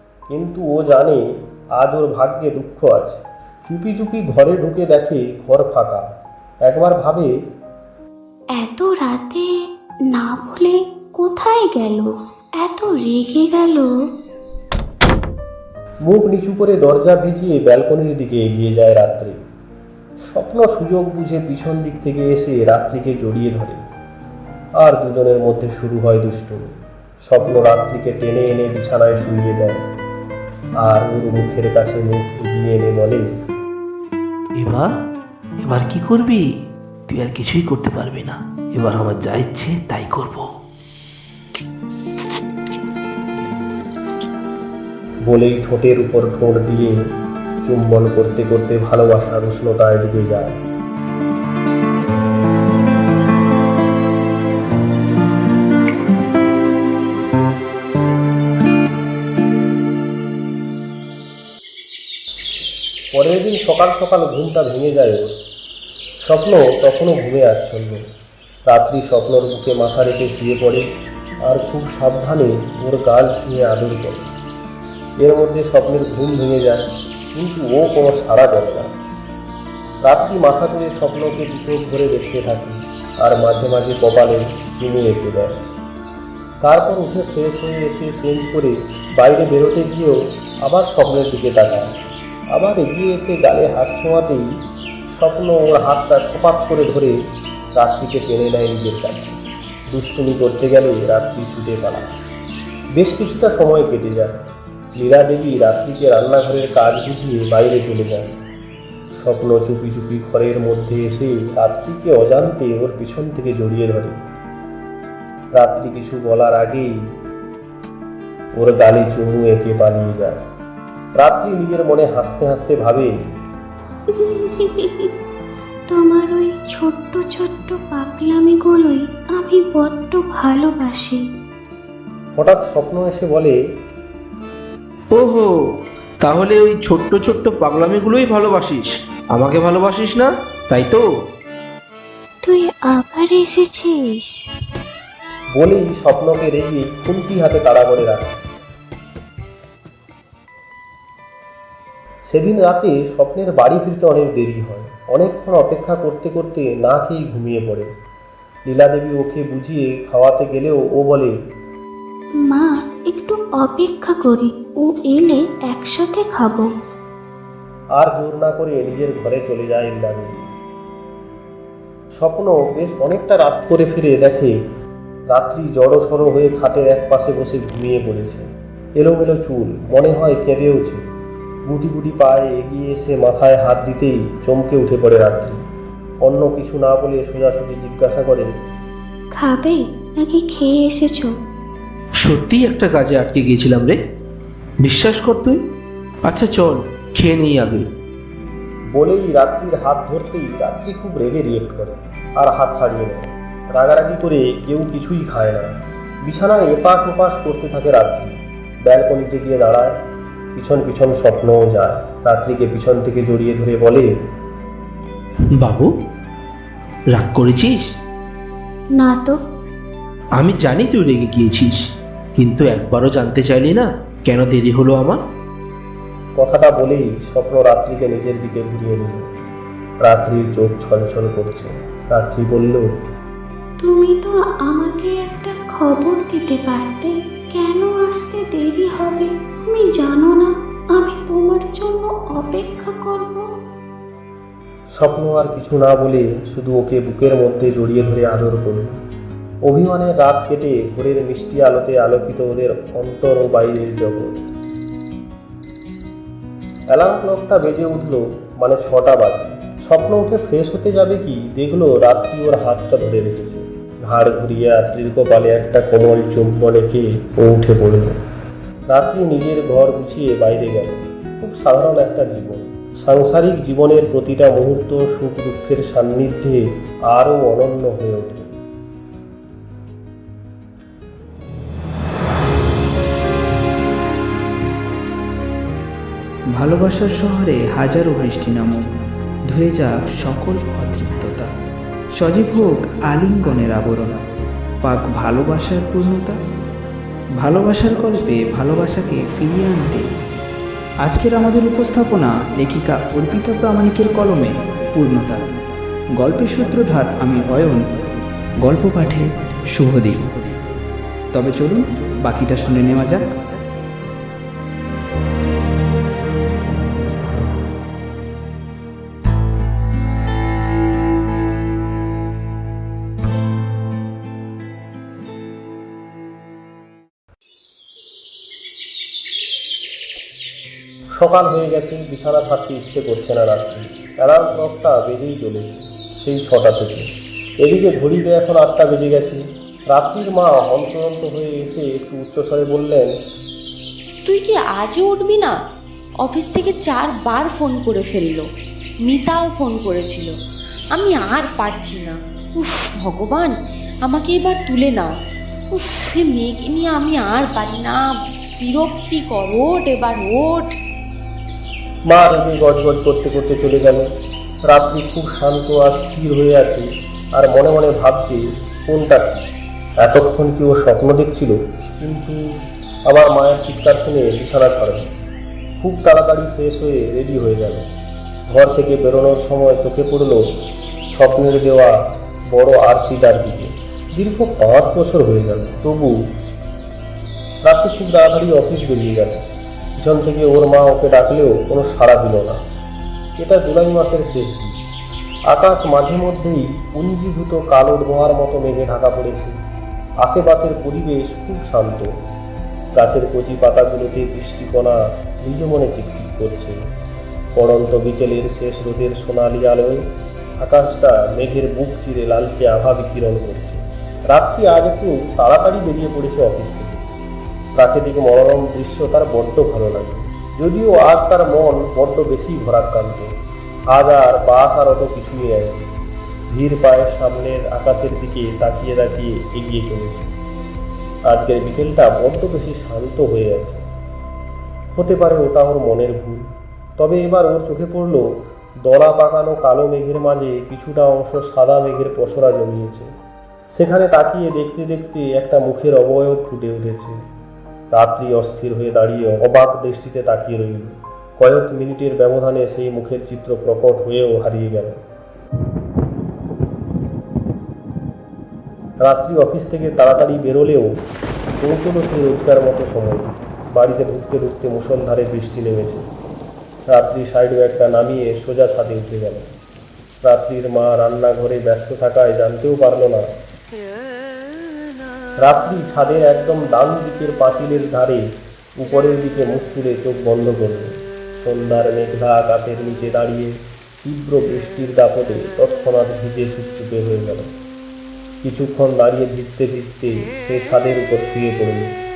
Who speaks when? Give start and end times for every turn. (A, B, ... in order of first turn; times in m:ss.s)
0:00.3-0:06.0 A
0:06.6-0:07.3 A
0:08.6-0:09.5 B
0:10.1-0:13.9 B
0:16.0-0:19.4 A
0:20.3-0:23.8 A
0:24.8-0:26.6 A
0:27.2-0:29.8 A
0:30.8-0:33.2 A
0:34.6-0:34.9 C
0:35.6-0:36.4 C
0:37.1-0:40.5 C
0:45.2-0:47.0 A
0:47.6-0:50.6 A
1:03.1-1:05.3 A
1:06.2-1:08.0 A
1:08.6-1:10.8 A
1:11.4-1:14.3 A
1:15.2-1:18.9 A
1:20.0-1:25.6 A
1:26.6-1:32.0 A
1:32.5-1:42.1 A
1:42.9-1:44.4 A
1:44.9-1:48.3 A
1:49.1-1:54.2 A
1:55.5-1:57.0 A
1:58.6-2:00.4 A
2:01.2-2:03.1 A
2:04.2-2:04.8 B
2:05.9-2:11.2 B
2:12.4-2:13.6 A
2:15.1-2:21.0 D
2:22.4-2:24.4 B
2:25.5-2:28.4 A
2:32.3-2:37.9 A
2:38.6-2:41.3 A
2:42.4-2:46.7 B
2:48.0-2:50.4 A
2:52.1-2:54.6 A
2:55.3-3:01.0 A
3:01.6-3:05.6 A
3:06.2-3:08.5 A
3:09.3-3:11.3 B
3:12.2-3:14.0 D
3:14.8-3:15.6 D
3:16.2-3:17.8 D
3:18.9-3:30.0 A
3:30.5-3:34.1 A
3:35.6-3:35.9 D
3:37.1-3:37.9 D
3:39.0-3:39.4 B
3:40.4-3:41.8 D
3:42.3-3:45.2 D
3:46.4-3:49.3 A
3:50.0-3:52.9 A
3:53.8-4:03.5 B
4:04.9-4:09.0 A
4:09.6-4:14.5 A
4:16.9-4:28.2 A
4:28.9-4:38.5 A
4:46.5-4:48.9 E
4:49.5-4:51.5 E
4:52.1-4:54.2 E
4:54.8-4:56.4 E
4:57.4-5:00.1 E
5:01.0-5:05.5 E
5:06.2-5:07.8 E
5:08.6-5:10.4 E
5:11.3-5:13.4 E
5:31.2-5:37.1 A
5:37.6-5:43.1 A
5:44.2-5:45.6 F
5:46.2-5:48.5 F
5:49.0-5:50.3 F
5:50.9-5:55.1 F
5:55.7-6:00.7 F
6:02.1-6:04.1 A
6:04.7-6:09.4 A
6:10.0-6:12.4 A
6:13.1-6:15.1 A
6:15.8-6:17.9 A
6:18.5-6:20.4 A
6:21.1-6:22.0 A
6:22.5-6:26.2 A
6:27.6-6:29.4 A
6:30.0-6:32.6 A
6:33.4-6:34.8 A
6:35.5-6:39.5 A
6:40.2-6:42.2 A
6:42.9-6:46.8 A
6:47.5-6:50.0 A
6:50.6-6:57.0 A
6:57.7-7:03.3 A
7:03.9-7:05.9 A
7:06.5-7:10.3 A
7:11.3-7:13.8 A
7:14.9-7:23.1 A
7:23.7-7:27.2 A
7:27.9-7:35.0 A
7:39.0-7:41.0 A
7:41.6-7:46.0 A
7:46.9-7:49.5 A
7:50.2-7:53.3 A
7:55.4-8:07.5 A
8:08.4-8:11.9 A